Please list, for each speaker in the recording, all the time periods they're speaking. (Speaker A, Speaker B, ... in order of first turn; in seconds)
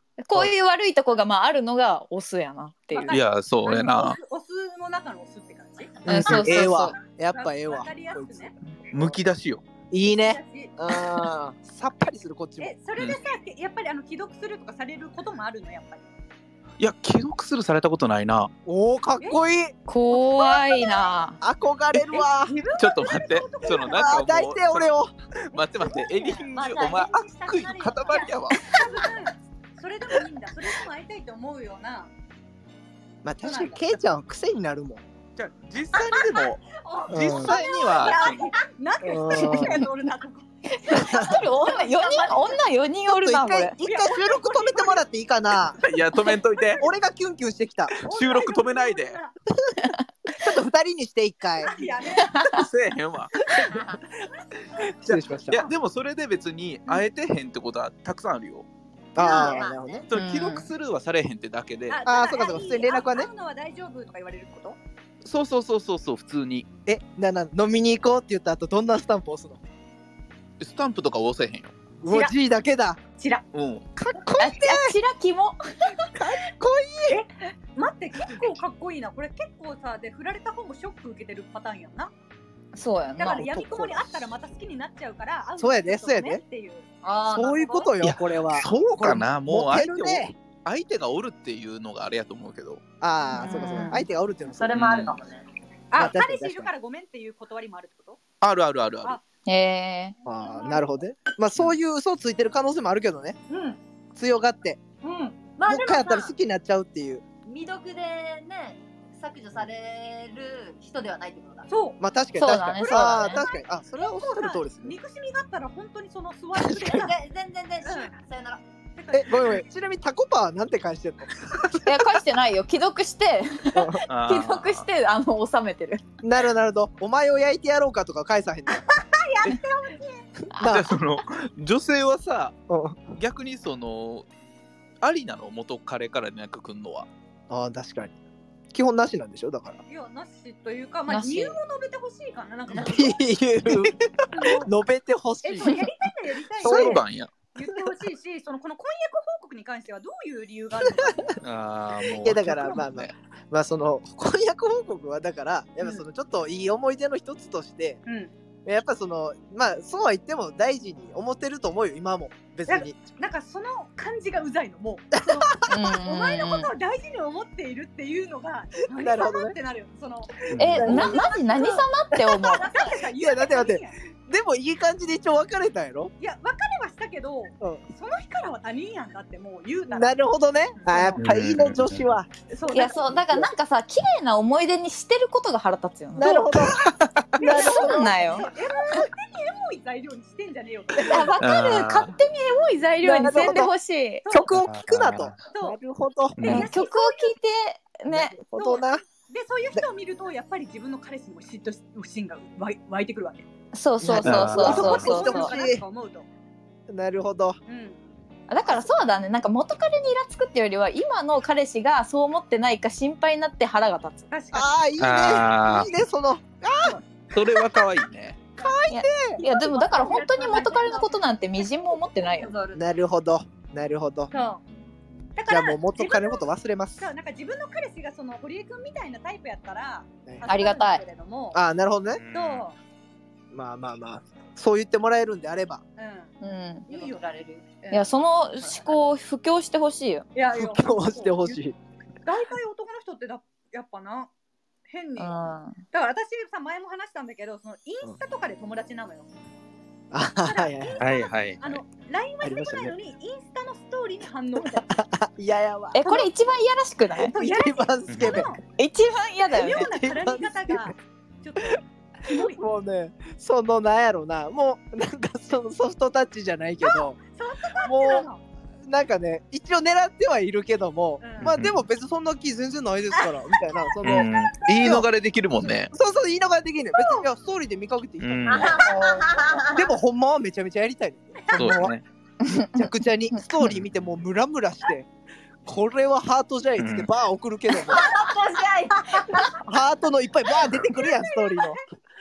Speaker A: 0.2-3.2, 6.0-7.0, 19.9-21.4, 39.3-39.8, 40.7-43.8, 52.2-52.6, 60.1-60.7, 74.4-75.9, 82.7-83.5, 93.3-94.0, 99.5-100.1, 112.3-113.4, 121.8-126.0, 141.1-141.6, 165.7-166.7, 170.6-172.7, 182.7-186.6, 187.4-188.5, 191.0-194.2, 196.4-198.4, 203.7-205.5, 208.5-214.3, 218.9-222.5, 230.5-231.0, 236.4-236.9, 237.9-240.2, 245.2-245.8, 255.9-257.3, 258.8-259.9, 282.4-282.8
Speaker B: 2.9-6.7, 7.3-8.5, 10.0-10.8, 12.6-16.1, 20.1-21.2, 22.1-24.3, 26.0-26.4, 28.1-32.1, 33.4-33.9, 37.3-42.6, 43.8-45.0, 46.3-46.8, 48.0-49.3, 51.6-52.5, 59.2-59.6, 61.9-64.8, 72.0-72.3, 73.2-73.4, 77.1-82.1, 83.2-86.9, 87.6-87.9, 95.9-98.2, 100.2-100.9, 103.5-103.8, 105.0-105.5, 111.7-112.0, 112.7-117.2, 117.8-118.1, 119.0-119.6, 129.0-130.3, 139.9-143.2, 144.3-144.7, 145.4-151.4, 158.1-158.3, 162.7-174.0, 176.2-180.2, 180.7-181.2, 182.5-183.2, 187.4-191.3, 194.2-194.6, 195.5-195.8, 196.4-197.3, 198.5-203.5, 204.6-206.2, 207.7-208.0, 214.3-214.8, 219.4-220.9, 224.3-224.6, 225.3-226.5, 227.0-231.6, 232.3-232.8, 236.0-236.3, 236.9-238.0, 240.3-241.6, 242.2-244.3, 244.9-245.4, 245.9-249.3, 250.4-254.9, 256.0-256.3, 257.1-258.6, 259.5-262.6, 266.8-268.4, 271.2-271.5, 276.9-277.2, 281.4-281.8, 290.7-291.8
Speaker C: 3.1-4.2, 8.9-9.6, 16.8-18.5, 22.8-24.9, 25.5-28.8, 35.4-38.5, 45.8-46.8, 47.9-49.2, 52.4-53.4, 54.8-58.7, 60.1-62.0, 65.2-66.7, 70.6-71.9, 73.5-73.9, 88.0-92.8, 94.7-95.2, 98.4-99.2, 124.1-124.8, 130.6-132.6, 133.2-134.3, 135.0-137.1, 146.6-147.4, 151.4-153.1, 170.5-171.1, 181.2-182.0, 191.4-192.1, 194.5-195.4, 196.3-196.7, 204.2-205.2, 215.0-215.9, 217.3-218.4, 232.1-232.7, 251.0-251.8, 258.1-258.5, 271.4-271.8, 274.0-275.9, 278.2-278.7, 281.5-282.0, 286.8-287.1
Speaker D: 6.0-9.2, 9.9-12.7, 18.6-19.7, 21.4-22.6, 23.8-25.1, 33.2-35.0, 37.1-37.5, 39.0-39.9, 40.9-41.4, 43.1-45.8, 46.7-47.9, 50.4-51.8, 55.0-55.6, 59.1-60.0, 62.0-63.3, 66.8-69.6, 72.0-73.0, 74.0-75.0, 76.1-77.2, 83.3-84.3, 85.6-86.4, 87.3-90.3, 93.0-94.8, 96.0-96.7, 100.2-103.4, 104.1-104.8, 105.7-107.2, 112.0-115.0, 116.6-117.1, 119.1-122.2, 123.7-124.0, 126.2-128.8, 130.6-130.9, 132.7-133.1, 137.5-138.1, 138.7-139.8, 142.7-145.9, 146.6-147.0, 151.0-151.3, 152.2-158.0, 158.7-163.0, 165.2-165.7, 169.0-169.5, 170.7-171.2, 172.1-176.1, 179.9-182.3, 183.1-183.5, 186.2-188.4, 191.0-191.3, 193.0-193.7, 194.3-196.6, 198.1-199.0, 204.0-205.8, 206.9-207.6, 214.5-217.0, 218.6-219.4, 222.7-224.3, 225.5-227.1, 231.5-232.2, 233.5-235.8, 240.5-241.8, 250.1-251.1, 252.4-252.9, 254.6-256.0, 257.3-258.5, 259.6-260.9, 262.2-267.2, 267.8-268.3, 268.8-275.1, 275.9-281.9, 282.5-285.1, 285.6-288.1, 289.6-291.8
Speaker E: 26.5-28.4, 36.1-38.5, 53.6-54.0, 59.2-60.1, 87.0-87.7, 94.5-95.4, 105.5-106.3, 107.4-111.7, 116.9-118.6, 219.5-221.2, 222.2-222.8, 236.9-237.7, 278.5-279.9, 287.8-289.6